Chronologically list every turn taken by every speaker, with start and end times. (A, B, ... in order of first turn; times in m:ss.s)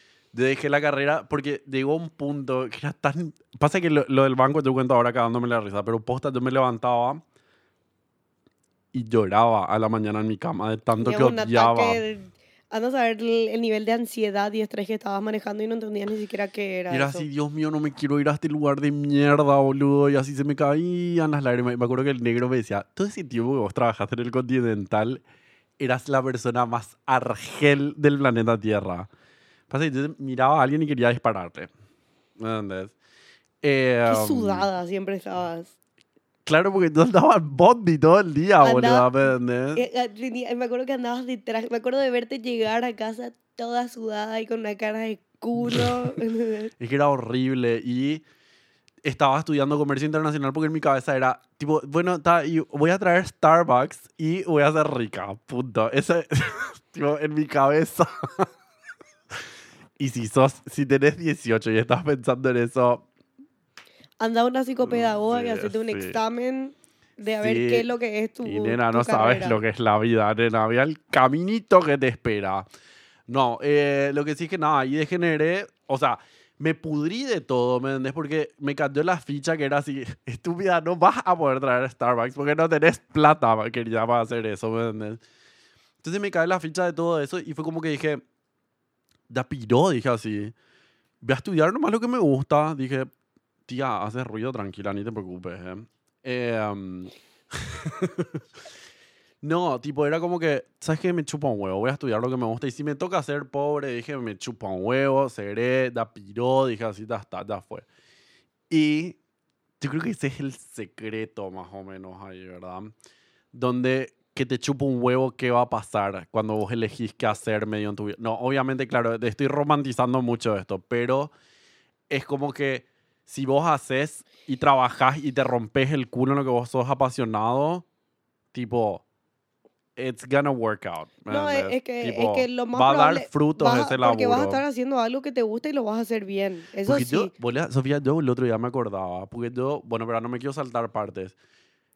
0:00.3-0:07.2 A
0:08.9-0:12.0 A
0:11.0-0:17.3 B
0:16.9-0:25.2 A
0:25.8-0:29.1 A
0:29.7-0:31.7 A
0:32.4-0:32.9 A
0:33.6-0:34.7 A
0:34.1-0:35.7 B
0:36.4-0:39.8 A
0:38.6-0:39.1 B
0:39.8-0:46.7 B
0:46.8-0:48.2 A
0:49.0-0:58.5 A
1:00.0-1:03.0 A
1:04.2-1:09.6 B
1:04.8-1:06.2 A
1:07.4-1:07.9 A
1:08.4-1:12.7 A
1:13.3-1:25.2 A
1:26.0-1:28.2 A
1:29.3-1:30.5 A
1:31.2-1:33.1 A
1:33.7-1:38.4 A
1:39.4-1:47.9 A
1:48.7-1:49.2 A
1:49.8-1:52.9 A
1:53.5-2:01.3 A
2:02.1-2:07.9 A
2:08.5-2:09.0 A
2:10.0-2:14.6 A
2:11.3-2:17.3 B
2:16.9-2:21.4 A